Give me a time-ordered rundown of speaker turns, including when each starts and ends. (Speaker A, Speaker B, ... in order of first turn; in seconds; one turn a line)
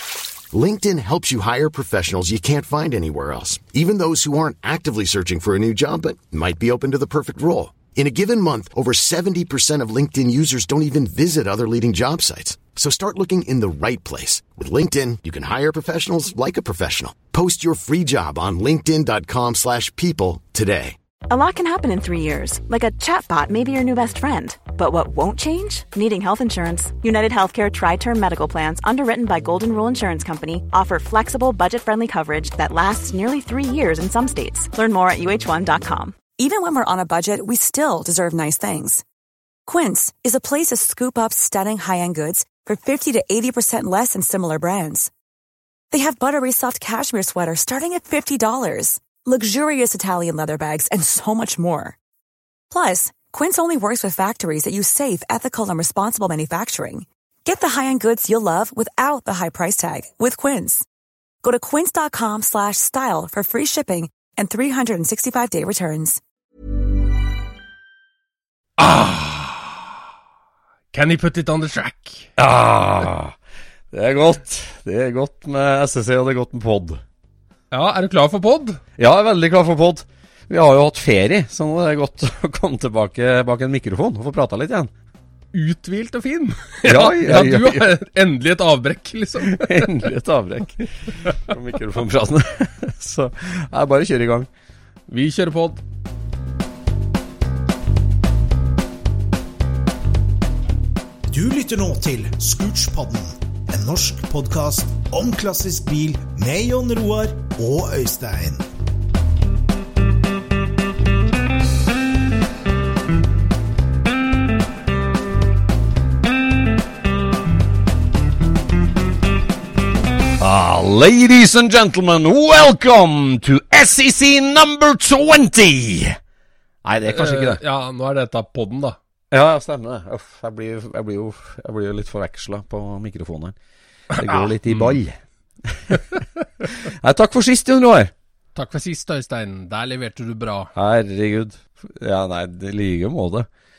Speaker A: 0.5-21.0
Speaker B: 21.3-36.2
Speaker C: 36.4-39.0
Speaker C: 39.7-45.1
Speaker C: 45.9-52.0
Speaker C: 52.7-60.9
Speaker C: 61.4-66.2
Speaker D: 68.8-69.9
Speaker D: 70.9-72.3
Speaker E: 72.4-73.4
Speaker E: 73.9-77.0
Speaker D: 77.7-78.8
Speaker E: 79.0-84.9
Speaker D: 85.5-90.1
Speaker E: 86.8-87.9
Speaker E: 89.4-94.5
Speaker D: 95.1-95.8
Speaker F: 101.3-108.7
Speaker E: 120.4-126.2
Speaker E: 126.8-127.6
Speaker D: 127.1-129.0
Speaker E: 129.3-133.6
Speaker E: 134.1-136.0
Speaker D: 134.1-134.9
Speaker E: 136.6-138.1
Speaker D: 138.6-140.7
Speaker E: 140.7-143.5